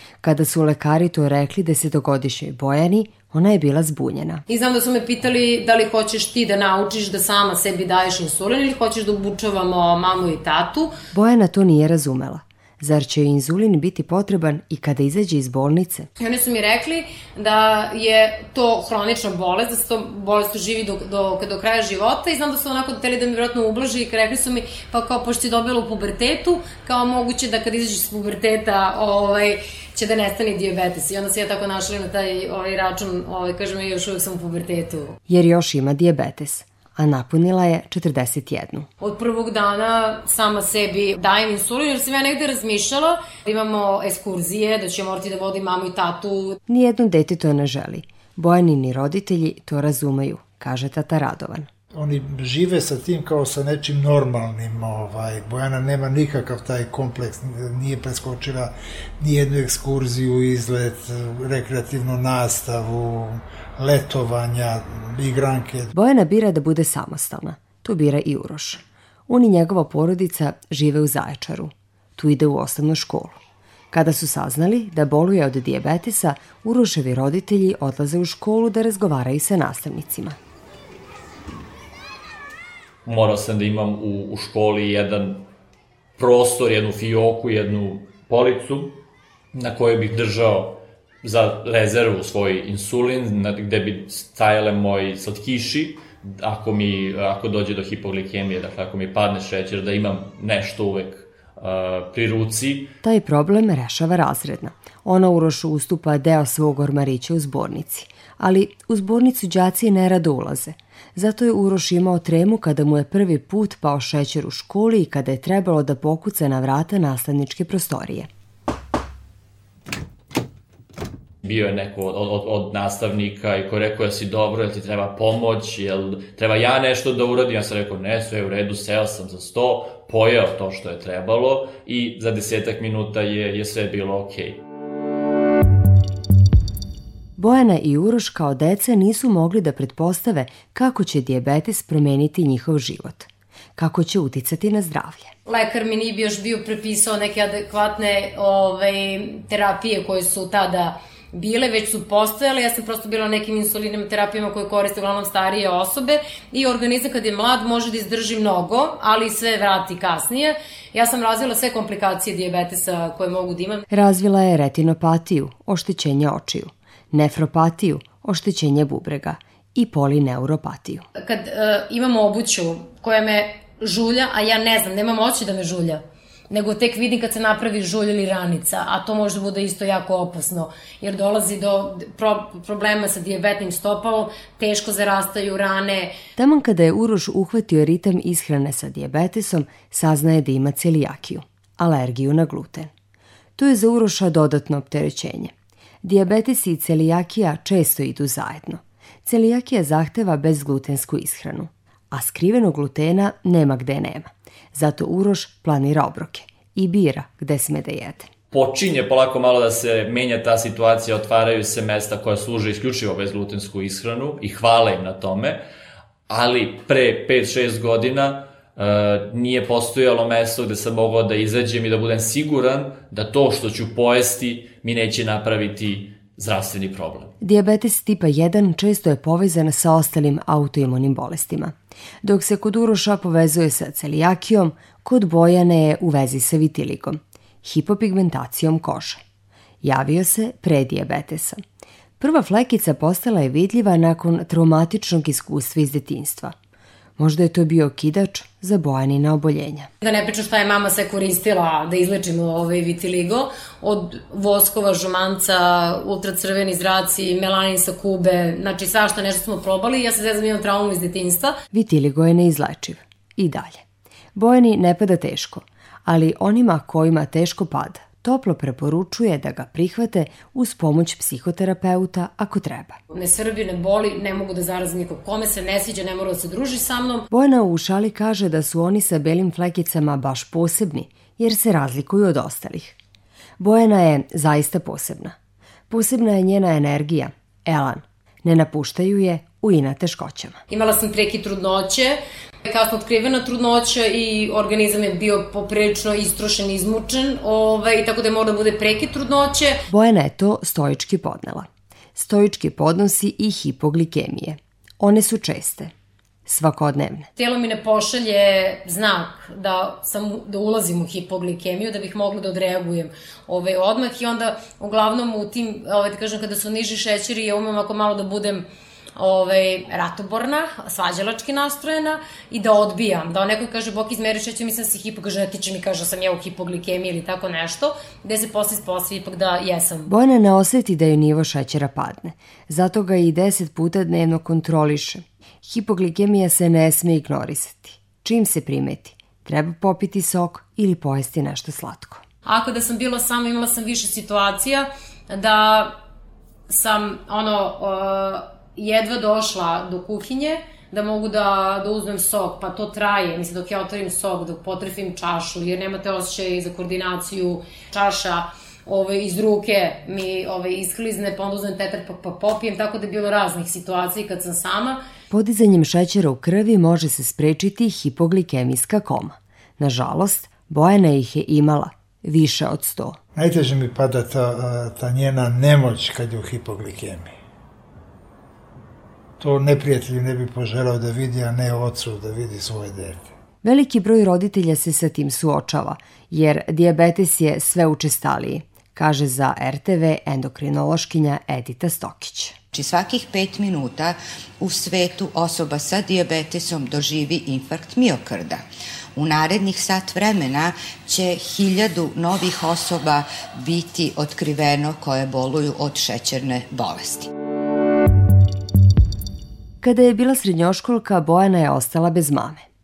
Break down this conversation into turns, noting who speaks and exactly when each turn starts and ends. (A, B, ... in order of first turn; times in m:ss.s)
0:00.2-0:04.4 A
0:04.5-0:10.9 B
0:11.1-0:16.1 A
0:16.2-0:35.2 B
0:35.3-0:38.9 A
0:39.0-0:46.6 B
0:46.7-0:51.7 A
0:51.9-1:05.9 C
1:06.0-1:13.4 A
1:13.9-1:20.4 A
1:23.0-1:25.5 D
1:26.2-1:29.0 D
1:29.5-1:42.9 D
1:43.0-1:58.3 A
2:01.4-2:14.6 D
2:17.4-2:25.3 A
2:25.5-2:43.8 B
2:43.9-2:51.0 A
2:51.2-3:06.1 B
3:06.4-3:12.9 A
3:13.6-3:28.3 A
3:28.5-3:35.6 D
3:36.3-3:47.3 D
3:47.4-3:59.2 A
3:59.8-4:01.6 A
4:02.2-4:06.5 A
4:07.2-4:09.9 A
4:10.0-4:21.5 B
4:21.7-4:23.8 A
4:24.4-4:33.0 A
4:33.1-4:37.3 B
4:37.3-4:43.0 A
4:43.6-4:45.3 A
4:45.9-4:50.6 A
4:50.7-4:59.8 B
4:59.9-5:05.9 A
5:06.5-5:07.3 A
5:07.4-5:18.6 B
5:19.2-5:30.1 B
5:30.1-5:42.2 A
5:42.4-5:46.0 B
5:46.7-6:05.0 B
6:05.3-6:13.2 A
6:13.4-6:17.3 C
6:19.4-6:23.3 C
6:23.6-6:32.6 A
6:32.7-6:38.6 E
6:39.2-6:47.3 E
6:49.8-6:52.6 A